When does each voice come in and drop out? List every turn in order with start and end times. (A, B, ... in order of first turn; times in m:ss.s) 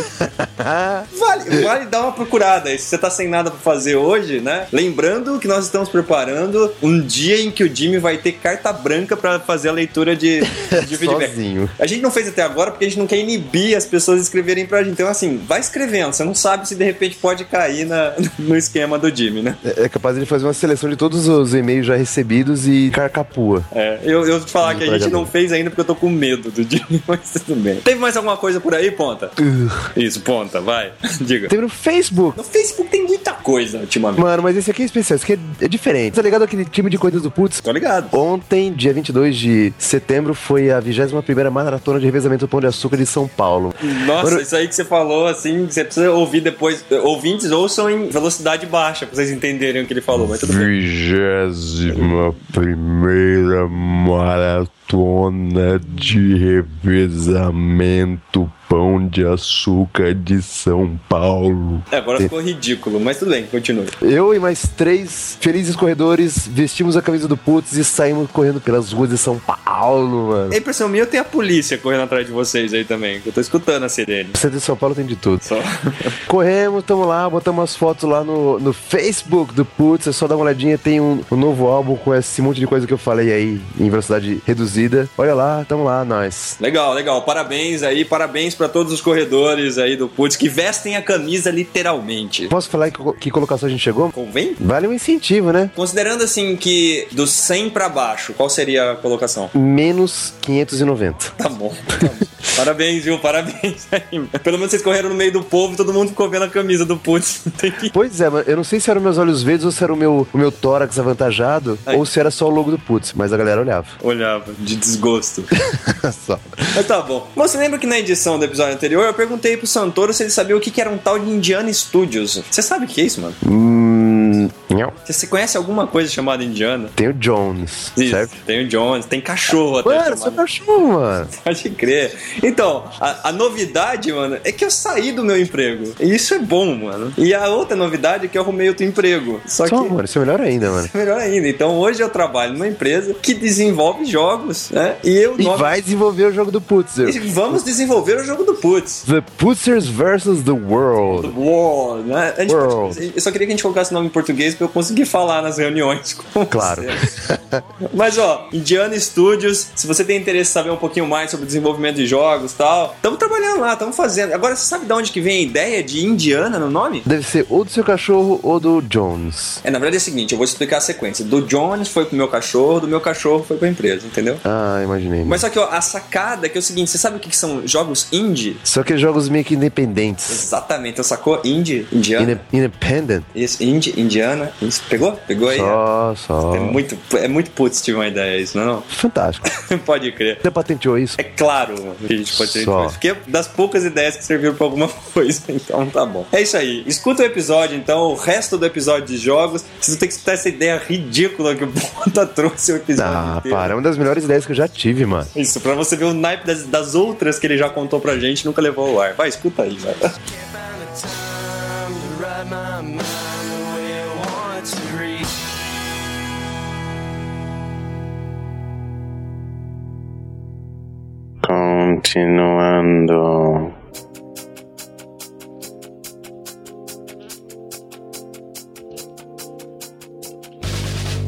0:00.2-0:01.7 A
0:01.1-0:19.6 B
0:10.7-0:11.7 A
0:19.6-0:23.6 A
0:23.7-0:29.3 B
0:24.6-0:25.3 A
0:29.4-0:29.9 A
0:29.9-0:31.5 B
0:31.5-0:32.4 A
0:32.4-0:34.3 B
0:34.2-0:44.4 A
0:37.6-0:38.1 B
0:43.8-0:50.7 B
0:50.1-1:02.3 A
1:01.9-1:03.9 B
1:04.0-1:10.6 A
1:10.5-1:14.4 B
1:14.3-1:15.4 A
1:15.4-1:16.2 B
1:16.3-1:26.6 A
1:26.6-1:32.5 B
1:32.5-1:35.7 A
1:34.1-1:34.6 B
1:35.7-1:39.5 B
1:39.5-1:41.3 A
1:41.4-1:47.9 B
1:47.9-1:53.9 A
1:51.8-1:52.2 B
1:54.0-1:55.5 B
1:55.6-1:56.6 A
1:56.7-2:03.4 B
2:03.4-2:04.9 A
2:05.0-2:06.9 B
2:07.0-2:08.3 A
2:08.0-2:10.4 B
2:09.8-2:11.3 A
2:11.4-2:19.9 B
2:19.6-2:20.9 A
2:20.6-2:25.8 B
2:25.4-2:27.6 A
2:27.0-2:29.0 B
2:29.0-2:31.3 A
2:31.1-2:37.1 B
2:32.5-2:33.0 A
2:36.5-2:37.6 A
2:37.8-2:47.0 B
2:47.0-2:49.6 A
2:49.6-2:54.4 B
2:54.4-2:55.4 A
2:55.2-2:58.6 B
2:58.6-3:00.4 A
3:00.3-3:02.4 B
3:02.2-3:03.2 A
3:03.3-3:05.8 B
3:05.5-3:06.8 A
3:06.5-3:08.9 B
3:08.9-3:09.4 A
3:09.5-3:10.4 B
3:10.4-3:11.2 A
3:11.2-3:23.7 B
3:12.3-3:13.0 A
3:23.0-3:25.3 A
3:25.3-3:30.1 B
3:30.2-3:35.2 C
3:41.4-3:43.6 D